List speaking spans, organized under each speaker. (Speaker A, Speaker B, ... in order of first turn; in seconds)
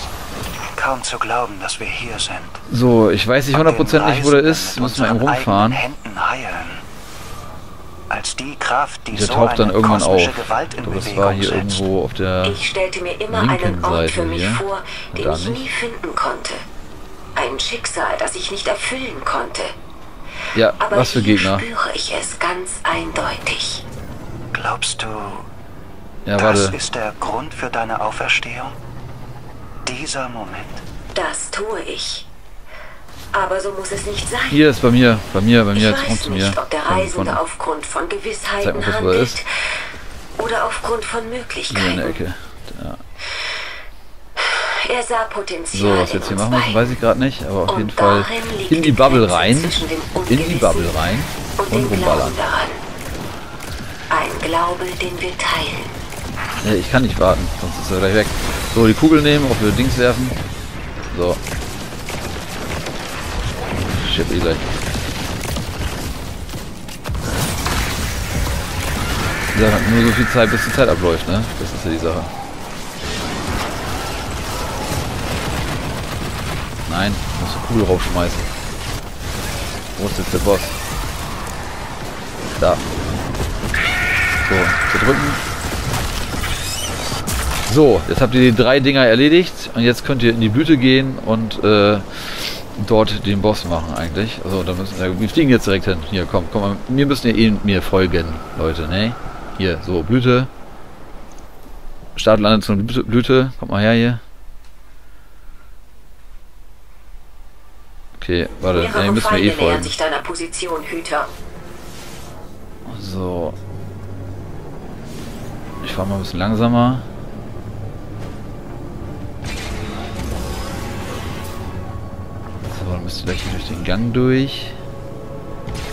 Speaker A: 0.8-2.6, 3.5-6.8, 8.1-11.8, 24.5-25.5, 26.4-28.8, 29.8-30.8
Speaker B: 2.7-5.9, 9.1-12.6, 13.3-15.7, 20.5-21.7, 26.2-26.8, 34.5-37.4, 38.6-39.4, 41.7-43.0, 45.7-52.4, 56.6-60.4, 61.1-61.4, 63.9-64.7, 69.5-72.3, 76.8-78.5, 80.0-80.8, 84.5-85.4, 87.7-100.5, 102.2-104.2, 108.2-109.9, 112.8-113.6, 115.8-117.0, 122.7-124.8
Speaker C: 12.4-16.6, 17.4-19.7, 20.8-23.8, 31.1-32.2, 33.3-34.6, 35.7-39.5, 40.4-42.2, 44.4-46.9, 47.7-50.9, 51.6-52.8, 54.1-55.9, 108.7-111.3